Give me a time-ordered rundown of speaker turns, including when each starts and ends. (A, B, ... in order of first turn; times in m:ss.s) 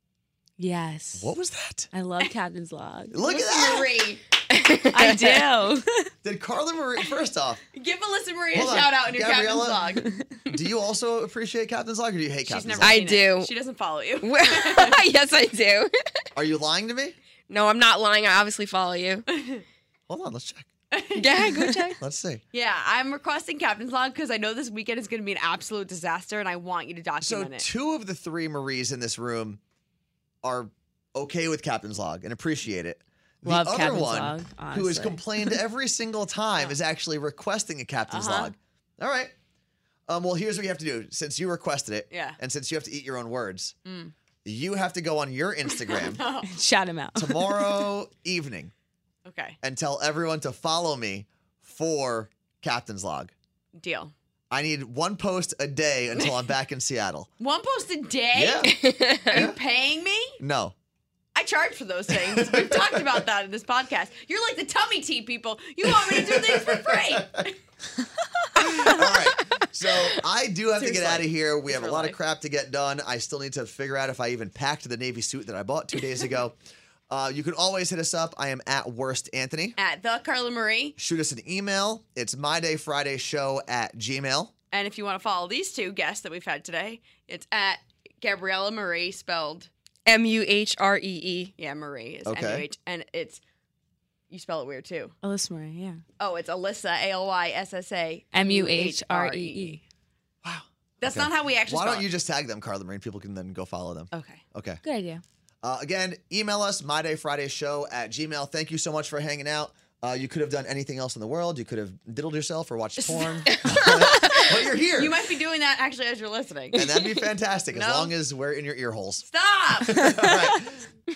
0:00.6-0:01.3 A
0:01.2-0:01.9 B
0:01.9-0:03.2 A
0:03.1-0:03.9 B
0:03.2-0:04.2 C
0:04.5-0:05.4 D
0:04.9-0:06.1 A
0:06.2-0:07.6 B
0:07.7-0:10.1 C
0:08.5-0:13.0 B
0:12.4-0:15.0 C
0:12.8-0:13.5 D
0:14.2-0:16.2 D
0:16.4-0:17.2 B
0:17.5-0:19.2 D
0:19.3-0:19.6 C
0:20.1-0:20.7 B
0:20.9-0:21.9 C
0:21.2-0:22.0 D
0:22.0-0:22.4 B
0:22.5-0:27.7 C
0:27.2-0:29.6 B
0:30.4-0:39.3 B
0:33.4-0:35.6 A
0:38.1-0:38.5 C
0:40.1-0:43.8 B
0:42.1-0:42.4 C
0:43.8-0:44.1 C
0:44.4-0:46.2 B
0:45.8-0:46.5 C
0:46.4-0:47.8 A
0:47.2-0:48.7 B
0:49.2-0:49.6 C
0:49.6-0:53.3 B
0:53.8-0:54.1 C
0:54.5-0:57.3 B
0:57.4-1:00.4 C
0:58.4-0:59.6 B
0:58.7-0:59.2 D
1:00.4-1:00.7 B
1:01.4-1:07.6 C
1:02.1-1:03.2 B
1:05.8-1:07.4 B
1:08.6-1:16.6 B
1:08.7-1:09.0 C
1:10.8-1:12.2 C
1:17.1-1:19.8 B
1:19.8-1:21.0 C
1:21.0-1:24.5 B
1:24.7-1:29.7 C
1:30.1-1:31.5 D
1:31.6-1:33.4 C
1:32.3-1:32.7 B
1:34.3-1:35.1 C
1:35.2-1:36.0 A
1:36.2-1:39.8 C
1:38.3-1:39.8 A
1:40.4-1:44.8 B
1:41.0-1:42.1 C
1:44.1-1:44.4 C
1:44.8-1:45.2 A
1:45.6-1:55.2 B
1:53.0-1:56.9 C
1:56.7-1:59.2 B
1:57.7-1:58.1 C
1:59.2-2:00.3 C
1:59.8-2:00.8 B